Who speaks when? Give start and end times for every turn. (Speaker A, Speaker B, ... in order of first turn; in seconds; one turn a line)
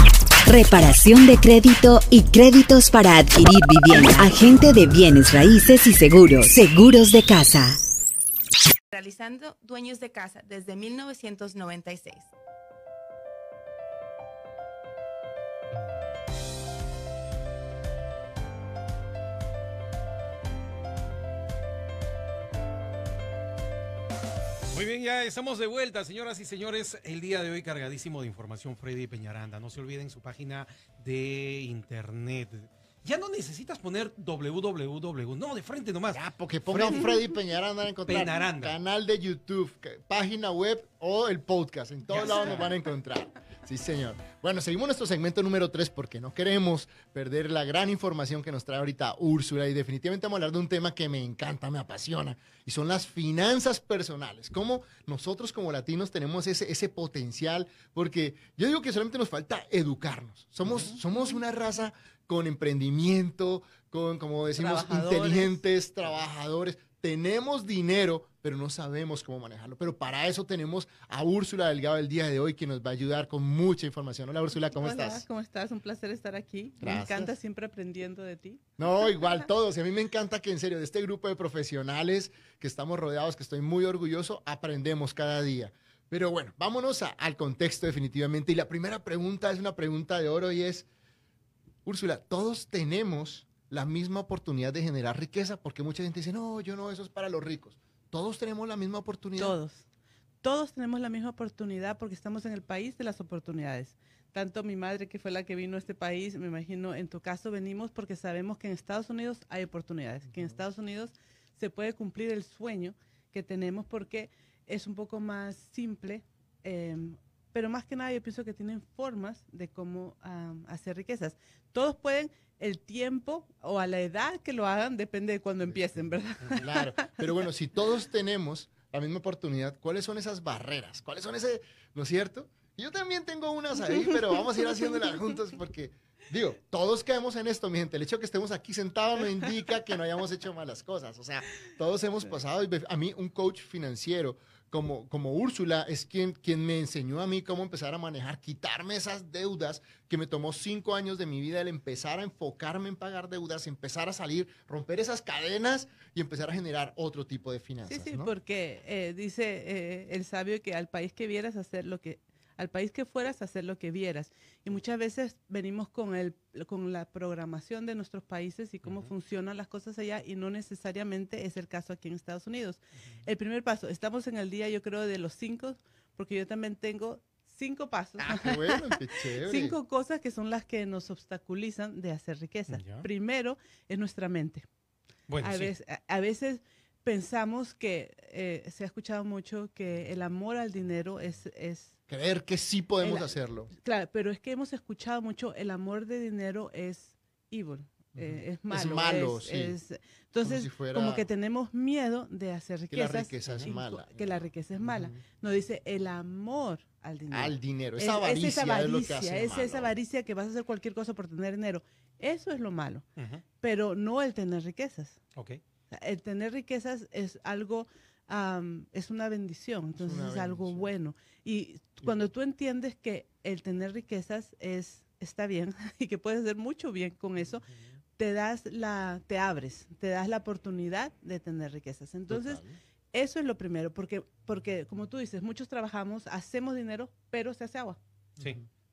Speaker A: 0.5-7.8
Speaker B: 8.9-12.3
Speaker C: 24.7-37.2
Speaker D: 36.1-75.2
Speaker C: 38.0-38.8
Speaker C: 42.1-42.7
Speaker C: 60.6-60.9
Speaker E: 64.5-65.6
Speaker E: 74.5-78.6
Speaker D: 76.8-77.3
Speaker D: 78.8-90.9
Speaker D: 91.8-99.6
Speaker E: 99.3-99.8
Speaker E: 100.4-127.2
Speaker D: 110.3-110.6
Speaker D: 125.6-158.3
Speaker E: 133.9-135.2
Speaker E: 157.8-184.7
Speaker C: 168.8-169.1
Speaker D: 178.2-179.8
Speaker C: 182.7-183.1
Speaker C: 185.3-185.7
Speaker E: 185.4-191.9
Speaker D: 192.1-193.7
Speaker E: 193.0-213.0
Speaker D: 198.2-199.8
Speaker D: 200.4-201.3
Speaker D: 202.9-205.2
Speaker D: 207.3-209.9
Speaker C: 213.2-213.4
Speaker E: 213.6-215.2
Speaker E: 215.9-238.0
Speaker D: 219.9-220.9
Speaker D: 232.3-232.7